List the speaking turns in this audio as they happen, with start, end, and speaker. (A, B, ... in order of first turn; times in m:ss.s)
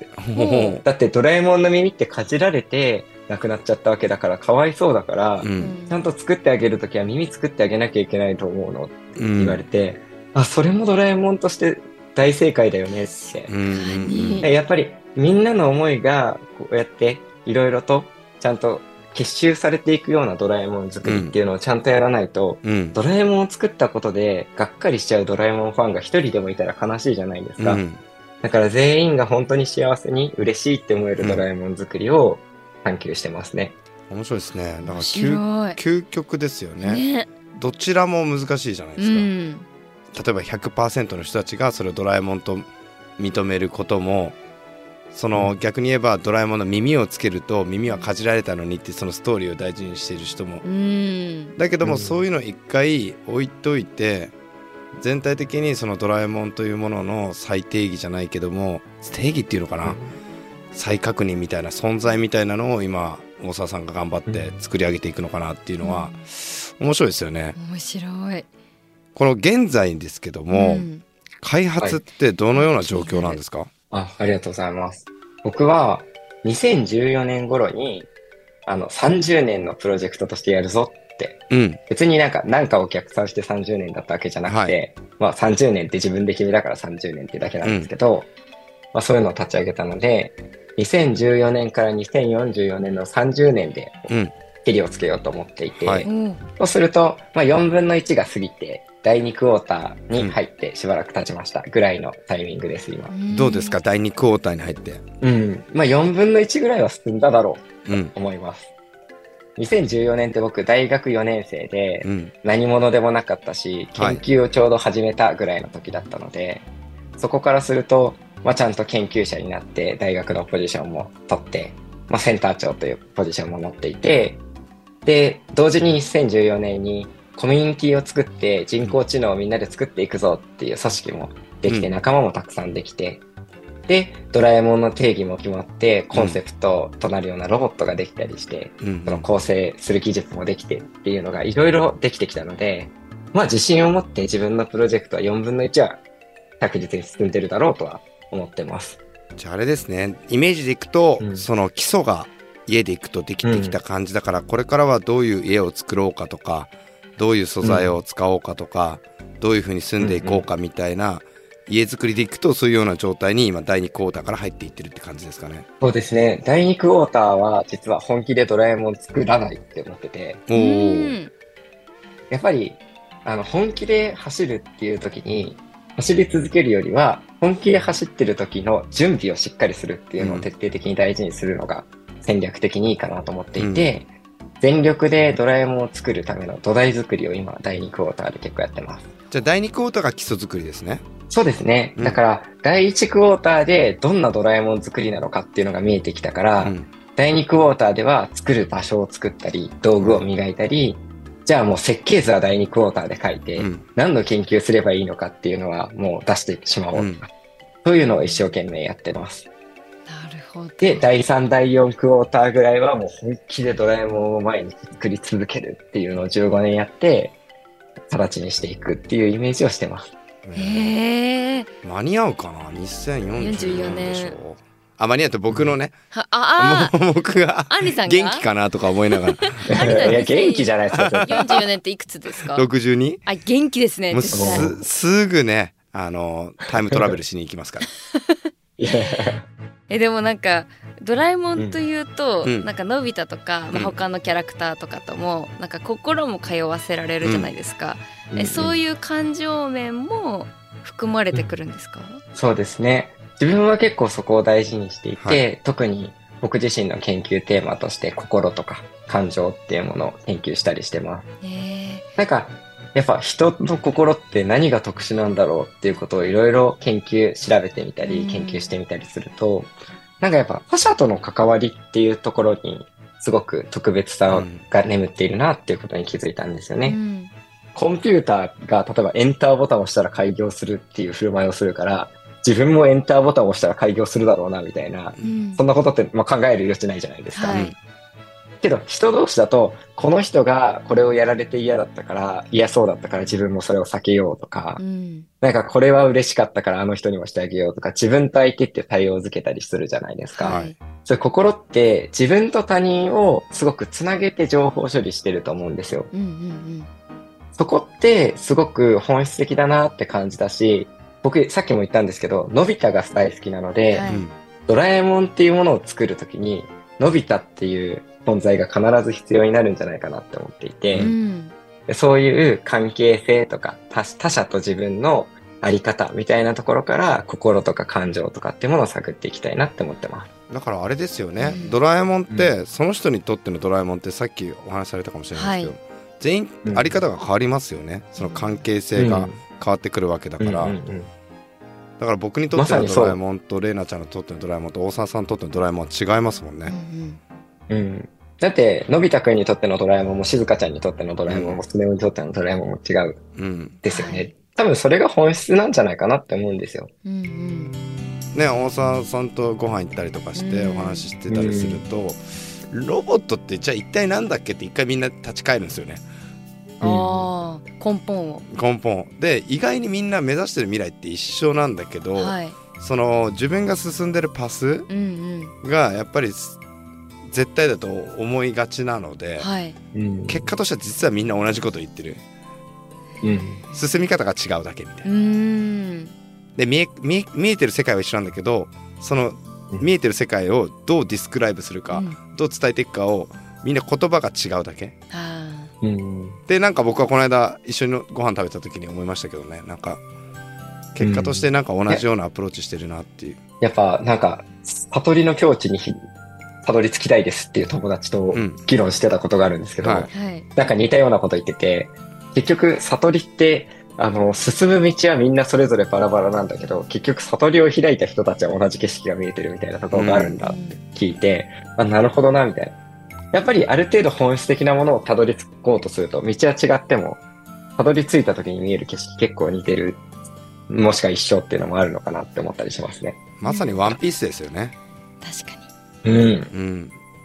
0:00.2-0:00.8 A
0:00.3-0:00.8 B
0:00.8-0:13.5 C
0:05.4-0:05.8 A
0:05.6-0:06.0 B
0:09.2-0:09.6 A
0:13.5-0:14.5 A
0:13.7-0:14.5 B
0:14.4-0:27.8 C
0:21.0-0:21.3 A
0:22.6-0:23.0 A
0:27.6-0:28.0 A
0:28.4-0:33.8 C
0:31.2-0:31.4 A
0:34.1-0:37.0 A
0:34.8-0:35.8 B
0:36.8-0:37.3 B
0:37.5-0:39.3 A
0:39.0-0:39.7 B
0:40.1-0:42.6 A
0:43.2-0:44.4 A
0:45.1-0:50.6 A
0:50.6-0:51.6 B
0:51.6-0:54.3 A
0:51.8-0:52.2 C
0:55.0-1:00.0 A
0:59.8-1:00.1 C
1:00.7-1:07.6 A
1:05.8-1:06.3 B
1:07.5-1:08.5 B
1:09.1-1:10.9 A
1:10.5-1:11.0 B
1:11.4-1:13.7 A
1:12.5-1:13.4 B
1:13.9-1:18.1 C
1:18.6-1:28.3 C
1:21.5-1:21.8 A
1:24.4-1:24.8 A
1:27.6-1:27.9 A
1:28.9-1:34.1 C
1:34.6-1:43.1 C
1:35.8-1:36.1 A
1:36.0-1:36.4 B
1:43.1-1:43.8 B
1:43.3-1:45.0 A
1:45.2-1:48.7 C
1:47.8-1:48.1 A
1:49.6-1:56.6 C
1:52.0-1:52.3 A
1:53.9-1:54.2 A
1:57.2-2:04.4 C
2:05.0-2:13.2 C
2:11.6-2:11.9 A
2:13.9-2:26.0 C
2:16.1-2:16.4 A
2:18.8-2:19.3 A
2:26.6-2:29.0 C
2:29.4-2:45.6 A
2:31.2-2:31.5 C
2:33.4-2:33.8 C
2:37.6-2:38.0 C
2:40.0-2:40.4 C
2:45.8-2:50.4 C
2:50.5-2:51.2 A
2:50.5-2:51.3 B
2:52.3-3:04.1 C
3:00.2-3:00.5 A
3:03.6-3:03.9 A
3:04.6-3:09.1 C
3:09.3-3:11.0 A
3:11.3-3:27.3 C
3:16.6-3:16.9 A
3:20.0-3:20.2 A
3:23.6-3:23.8 A
3:26.9-3:27.2 A
3:27.8-3:29.4 C
3:30.1-3:31.0 B
3:30.8-3:37.4 C
3:38.1-3:40.1 C
3:40.4-3:40.9 A
3:40.6-3:41.7 B
3:41.8-3:45.9 A
3:43.4-3:44.4 B
3:46.1-3:47.0 B
3:46.6-3:50.2 A
3:47.7-3:48.4 B
3:49.4-3:50.7 B
3:49.7-3:51.4 C
3:50.9-3:51.6 A
3:51.2-3:52.6 B
3:52.5-3:53.2 A
3:53.2-3:54.8 B
3:54.1-3:57.9 A
3:54.3-3:54.8 C
3:58.1-3:58.5 B
3:58.8-3:59.4 C
3:59.9-4:12.2 B
4:01.6-4:01.8 C
4:02.4-4:02.7 A
4:07.2-4:07.5 A
4:08.3-4:08.8 C
4:12.3-4:21.2 C
4:21.4-4:22.1 B
4:22.2-4:37.0 C
4:28.0-4:28.7 B
4:34.3-4:34.6 A
4:36.8-4:37.3 B
4:37.7-4:47.6 C
4:45.2-4:45.6 B
4:47.3-4:47.7 B
4:47.5-4:47.7 A
4:48.6-4:54.8 C
4:54.8-4:55.3 B
4:55.4-5:06.1 C
5:00.4-5:00.7 B
5:00.4-5:00.7 A
5:06.1-5:06.9 B
5:07.5-5:14.1 C
5:13.9-5:14.2 B
5:14.1-5:14.4 A
5:14.7-5:21.1 C
5:21.0-5:21.5 B
5:21.9-5:30.3 C
5:30.5-5:40.8 A
5:31.4-5:31.8 B
5:35.4-5:35.7 B
5:36.6-5:37.0 C
5:38.2-5:38.6 B
5:38.9-5:39.4 C
5:40.4-5:41.1 C
5:42.0-5:46.7 A
5:42.5-5:43.2 C
5:46.6-5:47.2 B
5:47.7-5:53.2 C
5:51.3-5:51.6 A
5:53.4-5:53.8 A
5:53.8-5:56.9 C
5:53.9-5:54.3 B
5:57.0-5:57.7 B
5:58.3-6:06.0 A
6:00.4-6:01.1 B
6:01.3-6:01.8 C
6:06.8-6:08.4 B
6:06.8-6:07.2 C
6:08.5-6:14.9 A
6:12.2-6:12.6 B
6:14.9-6:15.5 B
6:15.6-6:16.6 A
6:17.2-6:19.5 A
6:19.4-6:19.8 B
6:19.9-6:20.4 C
6:20.3-6:22.2 A
6:23.2-6:23.6 C
6:23.7-6:25.1 A
6:25.0-6:26.1 B
6:26.6-6:35.0 A
6:31.9-6:32.2 B
6:35.1-6:35.7 B
6:35.8-6:36.4 C
6:36.5-6:40.0 A
6:40.9-6:43.4 A
6:41.0-6:42.0 C
6:43.6-6:46.1 C
6:46.6-7:02.7 C
6:48.3-6:48.6 A
6:49.8-6:50.1 A
6:50.1-6:50.5 B
6:59.9-7:00.4 A
7:00.4-7:00.8 B
7:03.3-7:07.2 C
7:07.8-7:10.0 C
7:10.7-7:13.2 C
7:13.4-7:14.7 A
7:13.4-7:14.0 B
7:15.2-7:15.7 B
7:16.0-7:16.5 C
7:16.5-7:17.0 A